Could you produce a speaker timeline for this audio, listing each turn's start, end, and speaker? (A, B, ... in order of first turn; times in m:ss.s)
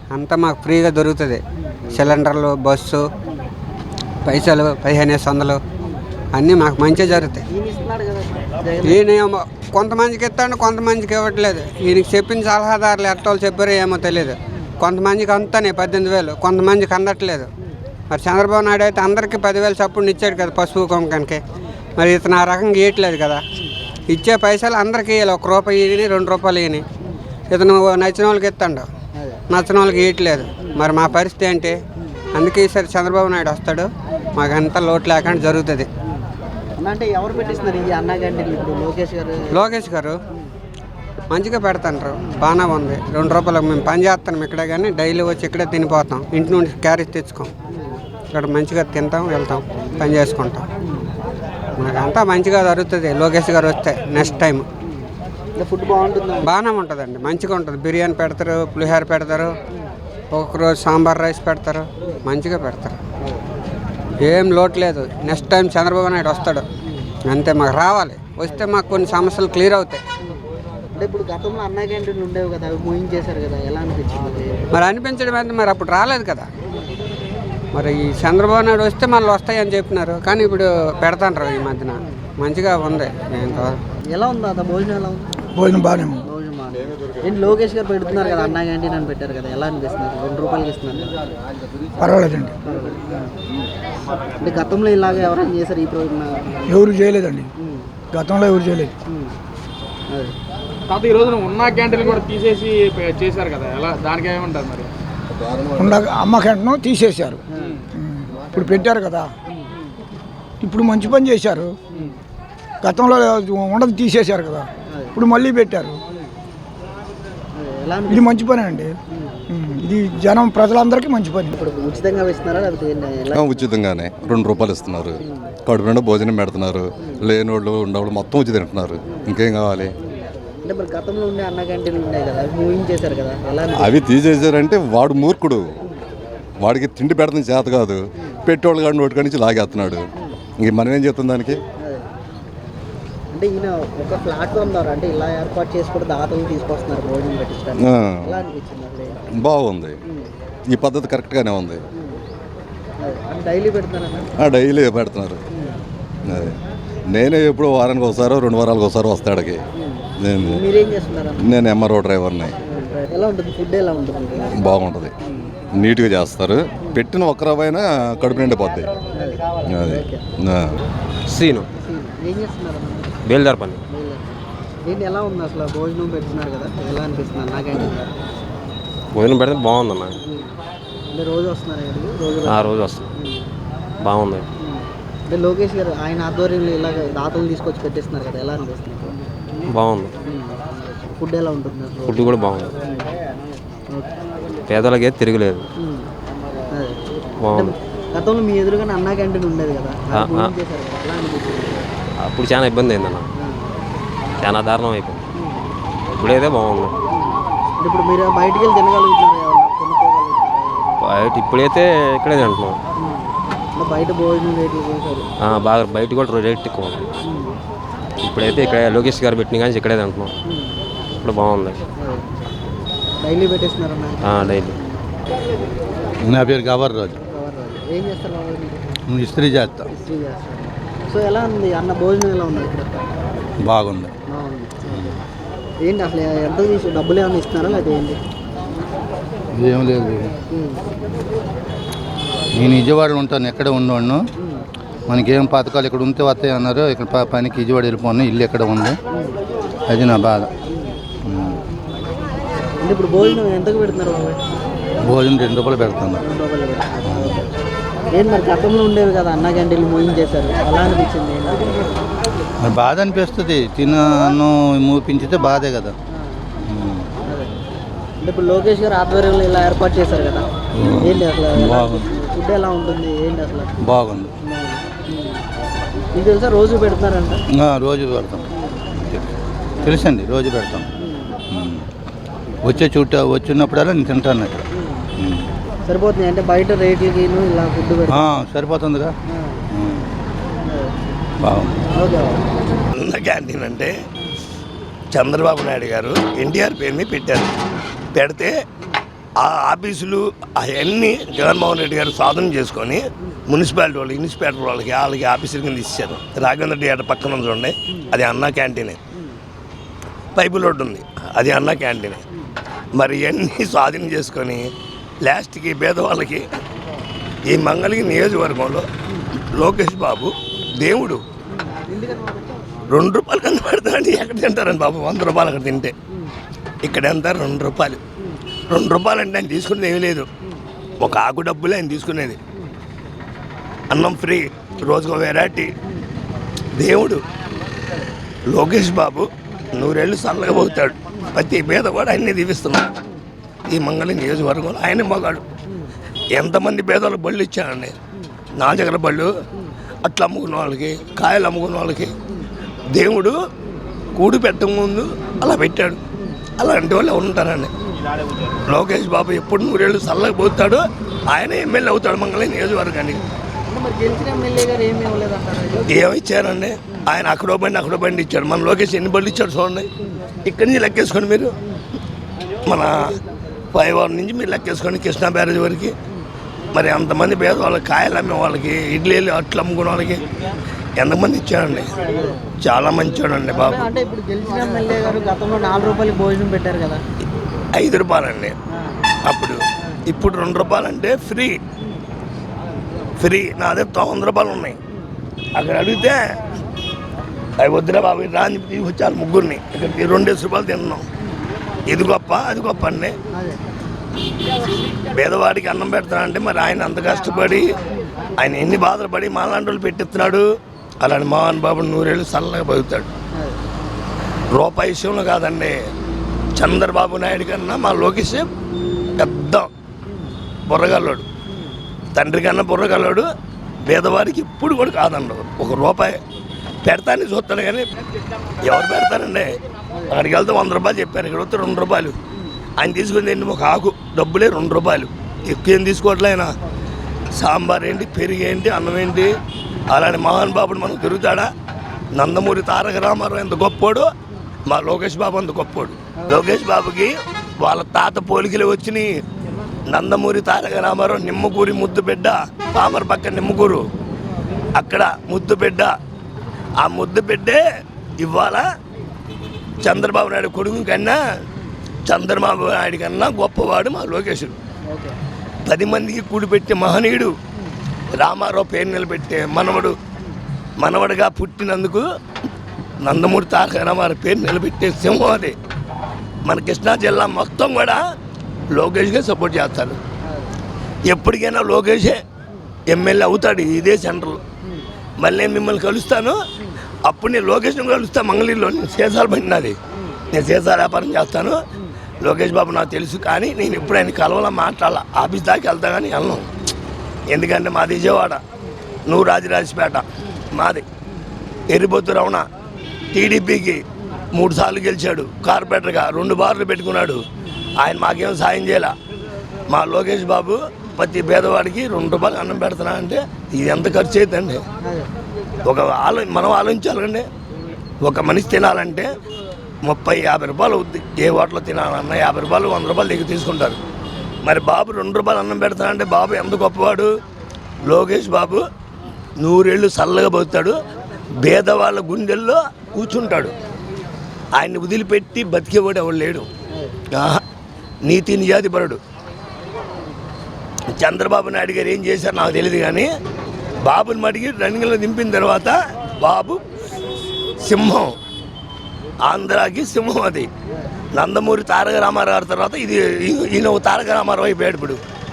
0:00.1-0:03.0 A
0:01.7-0:02.0 B
0:04.2-0:05.6 A
0:06.3-0:07.4 A
0:07.0-0:09.0 B
0:08.8-0:17.5 A
0:18.1-0:21.4 A
0:22.0-0:23.4 A
0:24.1-0:26.8 A
0:27.5-0:28.9 A
0:29.5-0:31.8 A
0:32.3-0:35.9 A
0:36.8-0:39.6 B
0:39.5-0:40.2 A
0:41.3-0:47.5 A
0:47.7-0:48.0 B
0:48.3-0:50.6 A
0:51.8-0:54.6 A
0:54.2-0:54.4 B
0:55.5-0:56.5 B
0:56.4-0:59.5 A
1:00.3-1:03.0 A
1:04.2-1:06.6 A
1:07.3-1:10.0 A
1:10.9-1:14.7 B
1:14.7-1:16.5 A
1:17.7-1:23.8 A
1:23.4-1:25.3 B
1:25.5-1:26.2 C
1:26.2-1:31.2 B
1:32.0-1:32.5 C
1:32.6-1:33.3 B
1:34.4-1:36.8 B
1:36.6-1:37.5 C
1:37.6-1:37.9 B
1:38.1-1:38.9 C
1:39.1-1:39.4 B
1:40.1-1:40.3 B
1:40.9-1:44.9 D
1:45.8-1:47.4 C
1:47.5-1:47.8 B
1:47.9-1:49.3 C
1:50.6-1:51.8 C
1:52.8-1:56.0 C
1:54.9-1:55.2 B
1:57.5-1:58.4 B
1:58.1-1:59.0 C
1:59.1-1:59.4 B
1:59.5-2:01.5 C
2:01.5-2:03.7 B
2:03.3-2:09.9 E
2:10.0-2:14.0 B
2:13.8-2:15.6 E
2:16.6-2:20.1 E
2:20.6-2:21.6 E
2:21.8-2:22.1 B
2:23.3-2:29.2 B
2:27.8-2:28.4 E
2:29.4-2:30.0 E
2:30.7-2:31.8 E
2:31.9-2:32.2 B
2:33.0-2:34.3 B
2:34.4-2:35.4 E
2:35.5-2:35.8 B
2:36.3-2:36.6 E
2:37.1-2:39.6 E
2:39.8-2:41.5 B
2:40.2-2:40.6 E
2:41.4-2:42.6 E
2:42.6-2:44.6 B
2:44.5-2:45.1 E
2:45.8-2:48.9 E
2:49.1-2:50.2 B
2:49.7-2:50.8 E
2:51.3-2:51.7 F
2:51.6-2:53.2 B
2:53.2-2:53.8 F
2:53.9-2:54.2 B
2:54.8-2:58.1 B
2:59.1-3:00.2 F
3:00.2-3:00.5 B
3:01.1-3:03.5 B
3:02.5-3:03.1 F
3:04.0-3:04.5 F
3:04.6-3:09.2 B
3:09.7-3:10.2 F
3:10.2-3:10.6 B
3:11.2-3:13.1 B
3:12.1-3:12.8 F
3:14.7-3:15.7 F
3:15.8-3:16.1 B
3:16.7-3:21.9 B
3:17.4-3:17.7 F
3:20.1-3:20.5 F
3:22.2-3:23.3 F
3:23.4-3:23.7 B
3:24.4-3:25.3 F
3:25.4-3:25.7 B
3:26.2-3:27.0 F
3:27.2-3:31.0 B
3:31.0-3:32.8 F
3:33.0-3:35.3 B
3:35.4-3:37.0 F
3:37.3-3:37.6 B
3:38.2-3:40.3 F
3:40.5-3:40.8 B
3:41.2-3:41.8 F
3:42.0-3:42.2 B
3:43.2-3:45.0 B
3:44.2-3:44.8 F
3:46.2-3:47.1 G
3:47.2-3:48.9 B
3:49.1-3:49.9 G
3:49.9-3:53.1 B
3:53.6-3:54.1 G
3:54.3-3:55.2 B
3:55.8-3:58.2 B
3:59.5-4:00.3 G
4:00.5-4:00.8 B
4:02.5-4:04.2 G
4:05.1-4:09.0 G
4:09.9-4:10.5 G
4:11.2-4:11.6 G
4:12.8-4:14.4 B
4:15.0-4:16.2 G
4:16.2-4:17.4 B
4:17.1-4:17.4 G
4:18.1-4:22.0 B
4:22.6-4:26.0 G
4:26.6-4:27.1 G
4:28.2-4:30.5 B
4:30.8-4:32.1 G
4:31.0-4:33.7 B
4:33.8-4:34.3 G
4:34.4-4:35.4 B
4:36.1-4:37.4 B
4:37.5-4:40.9 G
4:41.0-4:41.4 B
4:41.5-4:41.8 G
4:42.6-4:44.6 G
4:45.2-4:45.5 G
4:45.8-4:48.3 B
4:48.1-4:49.1 G
4:49.3-4:49.6 B
4:49.7-4:50.1 G
4:50.6-4:50.9 B
4:51.4-4:51.8 G
4:51.9-4:52.4 B
4:53.0-4:53.9 H
4:55.1-4:57.5 H
4:58.1-4:58.5 H
4:59.4-5:09.0 H
5:10.3-5:12.2 H
5:13.0-5:14.7 H
5:15.2-5:16.4 H
5:17.5-5:18.8 H
5:19.5-5:21.2 H
5:21.5-5:22.6 B
5:22.9-5:25.9 H
5:26.8-5:28.0 H
5:28.7-5:30.3 H
5:31.0-5:32.4 H
5:33.9-5:35.7 H
5:36.8-5:37.2 H
5:38.5-5:42.9 H
5:43.7-5:45.4 H
5:46.3-5:48.0 H
5:48.6-5:49.3 H
5:50.0-5:52.1 H
5:52.9-5:53.4 H
5:54.1-5:56.0 H
5:56.6-5:57.7 H
5:58.7-6:03.2 H
6:03.7-6:06.0 B
6:05.9-6:09.9 H
6:10.4-6:11.5 H
6:12.6-6:13.2 H
6:13.7-6:15.9 H
6:16.7-6:20.2 H
6:21.0-6:21.9 H
6:22.0-6:22.4 B
6:22.6-6:23.9 H
6:23.5-6:27.0 B
6:27.8-6:28.6 H
6:29.2-6:31.6 H
6:33.2-6:34.8 H
6:35.6-6:36.2 H
6:37.6-6:41.0 H
6:41.9-6:43.2 H
6:45.1-6:47.6 H
6:48.4-6:50.4 H
6:51.0-6:53.1 H
6:54.5-6:55.8 H
6:56.6-6:58.5 H
6:59.2-6:59.7 H
7:00.7-7:01.2 H
7:02.1-7:03.3 H
7:03.8-7:06.2 H
7:06.8-7:07.9 H
7:08.6-7:09.5 H
7:10.1-7:12.2 H
7:12.8-7:16.5 H
7:17.4-7:19.3 H
7:19.9-7:21.4 H
7:22.1-7:24.1 H
7:24.7-7:29.0 H
7:29.9-7:33.8 H
7:34.8-7:35.9 H
7:36.8-7:37.6 H
7:38.2-7:38.6 H
7:39.8-7:41.2 H
7:42.0-7:44.6 H
7:44.9-7:45.2 B
7:45.7-7:47.4 H
7:48.2-7:49.9 H
7:50.8-7:52.0 H
7:53.0-7:55.5 H
7:56.4-7:58.0 H
7:58.7-8:00.0 H
8:01.1-8:02.2 H
8:02.9-8:04.4 H
8:05.2-8:06.4 H
8:07.0-8:09.8 H
8:10.3-8:11.6 H
8:12.2-8:16.5 H
8:17.3-8:18.4 H
8:19.1-8:20.8 H
8:21.7-8:22.5 H
8:23.1-8:23.8 H
8:24.3-8:27.2 H
8:27.8-8:28.9 H
8:29.7-8:34.6 H
8:35.6-8:37.2 H
8:38.0-8:39.1 H
8:39.9-8:43.8 H
8:44.4-8:47.1 H
8:47.8-8:48.6 H
8:49.4-8:50.8 H
8:51.4-8:53.5 H
8:54.6-8:56.5 H
8:57.2-8:57.4 H
8:58.0-8:59.0 H
9:01.0-9:03.1 H
9:03.8-9:06.6 H
9:07.6-9:08.1 H
9:09.2-9:10.5 H
9:11.1-9:15.0 H